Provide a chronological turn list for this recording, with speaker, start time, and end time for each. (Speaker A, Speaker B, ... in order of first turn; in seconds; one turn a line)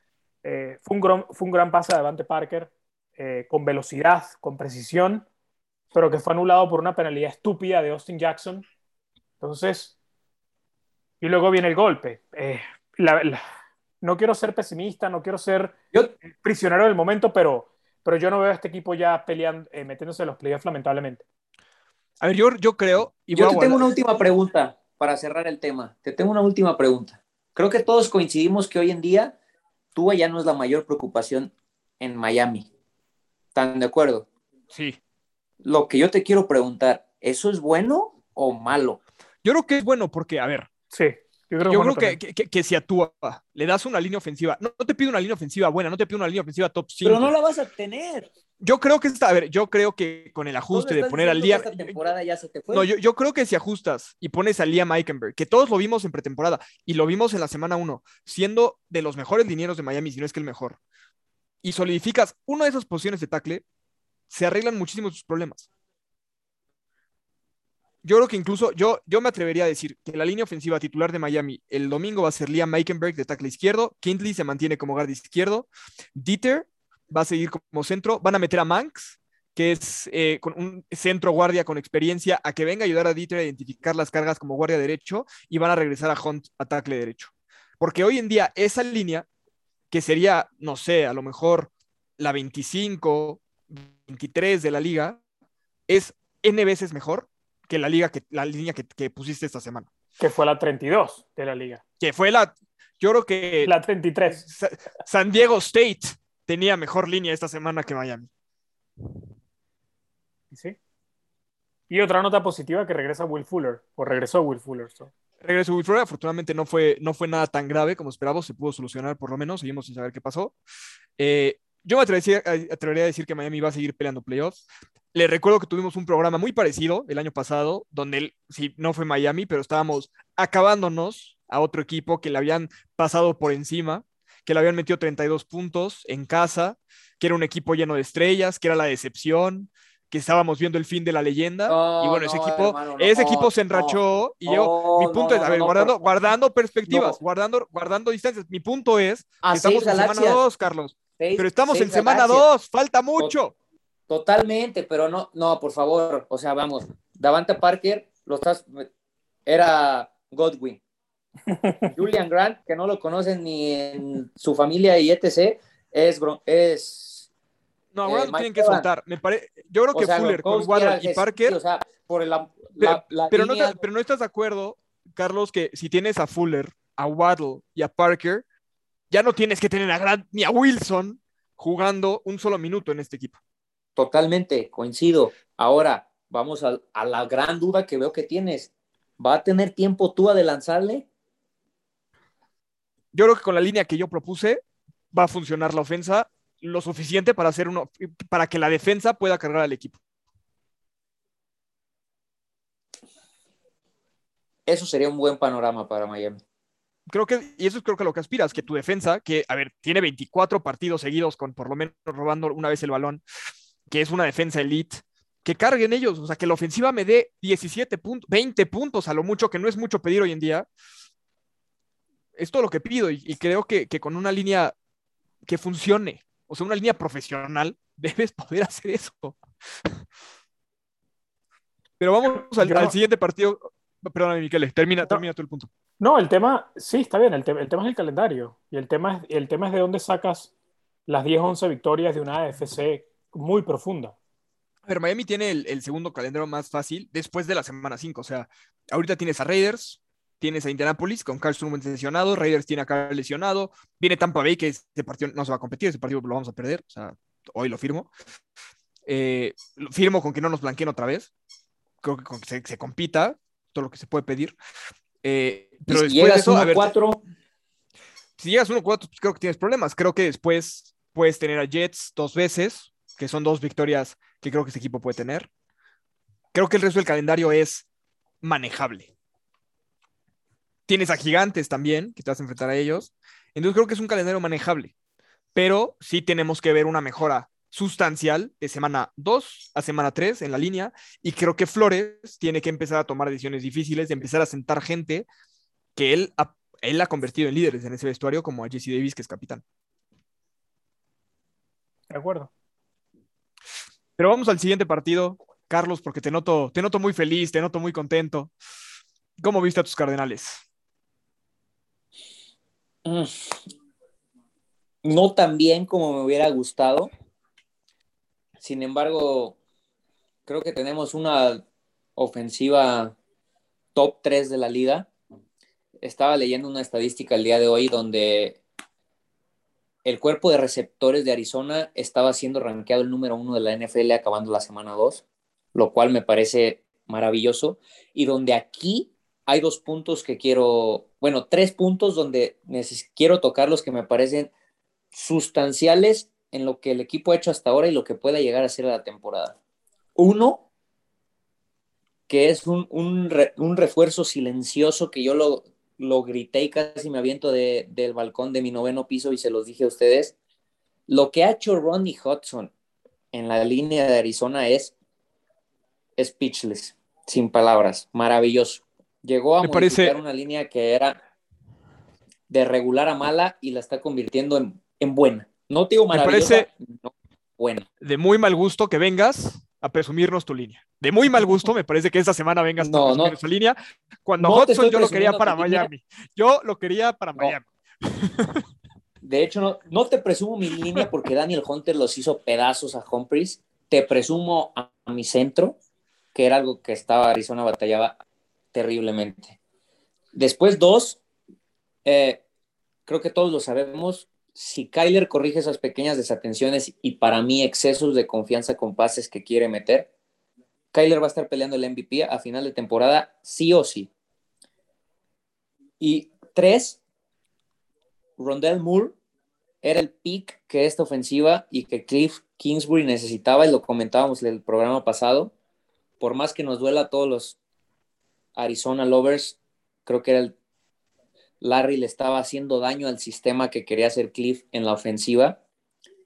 Speaker A: 0.4-5.3
Speaker A: 5.9-8.7
Speaker A: 9.4-10.0
Speaker A: 11.2-13.4
Speaker A: 14.0-21.2
Speaker B: 22.2-23.9
Speaker C: 23.4-29.4
Speaker C: 29.9-32.7
Speaker C: 33.5-34.3
Speaker B: 34.7-35.0
Speaker C: 35.6-39.0
Speaker B: 39.4-40.7
Speaker A: 40.9-42.2
Speaker B: 41.7-47.3
Speaker C: 47.0-48.3
Speaker B: 48.6-52.0
Speaker C: 50.7-52.9
Speaker B: 52.7-60.8
Speaker B: 61.6-63.6
Speaker B: 64.3-65.7
Speaker B: 68.0-89.3
Speaker B: 89.9-95.2
Speaker B: 95.9-99.9
Speaker A: 100.2-101.8
Speaker B: 102.0-103.7
Speaker A: 103.6-104.5
Speaker B: 104.3-108.3
Speaker A: 110.5-110.8
Speaker A: 111.9-115.1
Speaker B: 115.4-120.5
Speaker B: 121.2-153.6
Speaker C: 141.7-146.0
Speaker C: 146.9-147.2
Speaker C: 149.4-150.4
Speaker C: 151.2-152.5
Speaker C: 154.1-158.9
Speaker C: 159.5-160.8
Speaker A: 161.5-161.9
Speaker C: 161.9-167.3
Speaker B: 167.9-171.6
Speaker C: 168.1-168.9
Speaker C: 169.9-173.8
Speaker B: 172.8-178.4
Speaker B: 179.1-183.4
Speaker C: 184.0-191.1
Speaker B: 193.1-194.6
Speaker B: 195.1-200.0
Speaker C: 204.7-206.4
Speaker B: 207.1-213.2
Speaker B: 213.9-220.7
Speaker B: 222.4-224.8
Speaker B: 225.5-229.4
Speaker B: 232.0-235.7
Speaker A: 232.6-232.9
Speaker A: 236.0-240.5
Speaker A: 241.1-244.2
Speaker B: 244.9-258.1
Speaker B: 259.1-261.3
Speaker B: 262.0-264.6
Speaker B: 265.2-266.9
Speaker C: 265.9-267.2
Speaker B: 268.4-275.5
Speaker B: 276.5-277.9
Speaker B: 278.4-279.1
Speaker B: 280.9-284.9
Speaker B: 285.6-295.3
Speaker B: 296.0-299.6
Speaker A: 302.1-302.5
Speaker B: 304.2-308.5
Speaker B: 309.4-310.6
Speaker C: 313.1-313.6
Speaker C: 315.0-317.1
Speaker C: 318.6-319.6
Speaker C: 320.5-321.6
Speaker C: 322.2-323.2
Speaker C: 323.9-325.1
Speaker C: 326.0-328.6
Speaker C: 330.1-335.2
Speaker C: 335.8-344.5
Speaker C: 345.1-349.6
Speaker C: 350.2-350.7
Speaker C: 352.3-360.4
Speaker C: 361.1-362.7
Speaker C: 363.3-364.9
Speaker C: 366.2-371.2
Speaker B: 369.6-370.2
Speaker C: 372.5-377.9
Speaker B: 376.1-376.7
Speaker B: 378.0-388.6
Speaker C: 382.8-383.4
Speaker C: 384.4-385.9
Speaker C: 389.2-395.8
Speaker C: 396.4-398.2
Speaker C: 398.7-399.6
Speaker C: 400.4-401.2
Speaker C: 402.1-402.4
Speaker C: 403.1-410.1
Speaker C: 410.9-414.1
Speaker C: 416.0-417.0
Speaker C: 418.4-419.2
Speaker C: 419.8-425.5
Speaker C: 426.2-427.6
Speaker C: 428.6-430.5
Speaker C: 431.6-435.6